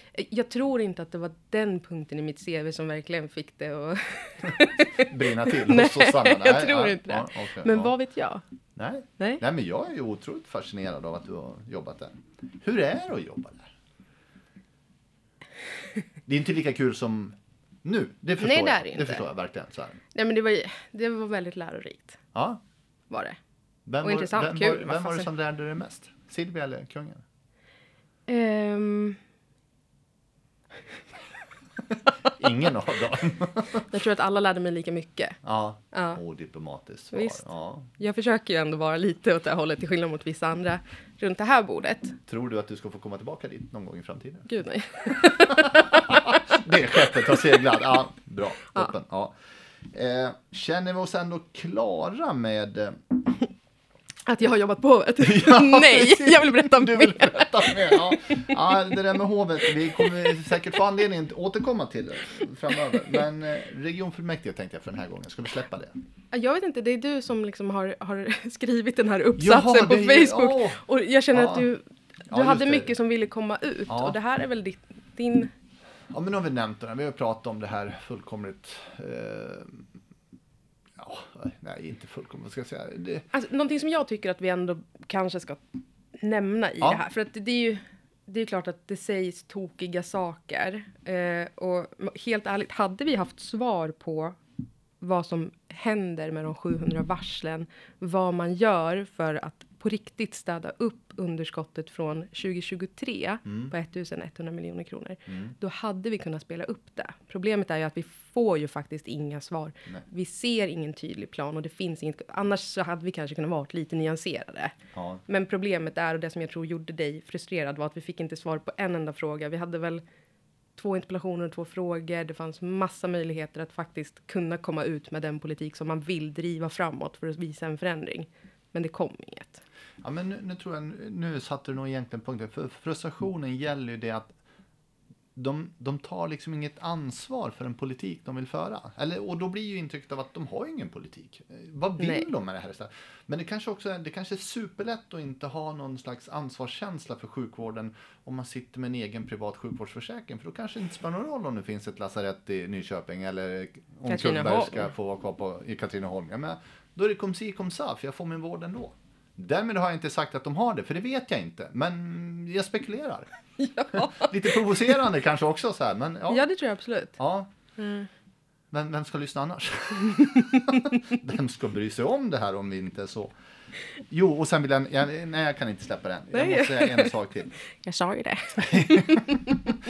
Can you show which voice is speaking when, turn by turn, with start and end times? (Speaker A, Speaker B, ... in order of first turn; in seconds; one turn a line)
Speaker A: 0.1-8.4
Speaker B: 4.9-7.9
Speaker B: 8.8-13.7
Speaker B: 16.3-20.0
Speaker A: 18.4-19.2
Speaker A: 20.1-22.2
Speaker B: 22.3-22.6
Speaker A: 23.1-23.4
Speaker B: 23.9-27.2
Speaker A: 24.0-25.3
Speaker A: 28.3-29.2
Speaker B: 32.4-33.9
Speaker A: 33.9-35.4
Speaker B: 35.4-37.9
Speaker A: 35.9-36.2
Speaker A: 37.1-37.4
Speaker A: 38.0-42.2
Speaker B: 42.3-44.5
Speaker A: 44.5-45.9
Speaker B: 45.1-49.4
Speaker B: 49.9-53.0
Speaker A: 54.3-58.8
Speaker B: 55.2-66.0
Speaker A: 60.0-60.3
Speaker A: 66.3-75.5
Speaker B: 69.4-71.7
Speaker B: 72.3-72.9
Speaker B: 73.9-74.2
Speaker B: 76.1-79.8
Speaker B: 81.0-83.3
Speaker A: 83.3-85.6
Speaker A: 86.2-94.4
Speaker A: 95.0-114.8
Speaker B: 103.5-103.7
Speaker B: 105.3-105.6
Speaker B: 114.9-115.2
Speaker A: 115.3-120.0
Speaker A: 120.8-129.6
Speaker B: 130.0-134.3
Speaker B: 135.3-163.3
Speaker A: 142.0-142.3
Speaker A: 154.1-154.9
Speaker A: 163.6-164.6
Speaker B: 163.9-166.5
Speaker A: 166.3-167.2
Speaker B: 167.2-167.5
Speaker A: 167.8-168.1
Speaker B: 168.7-173.3
Speaker B: 174.1-177.6
Speaker A: 176.3-177.1
Speaker A: 177.8-179.5
Speaker B: 178.7-179.5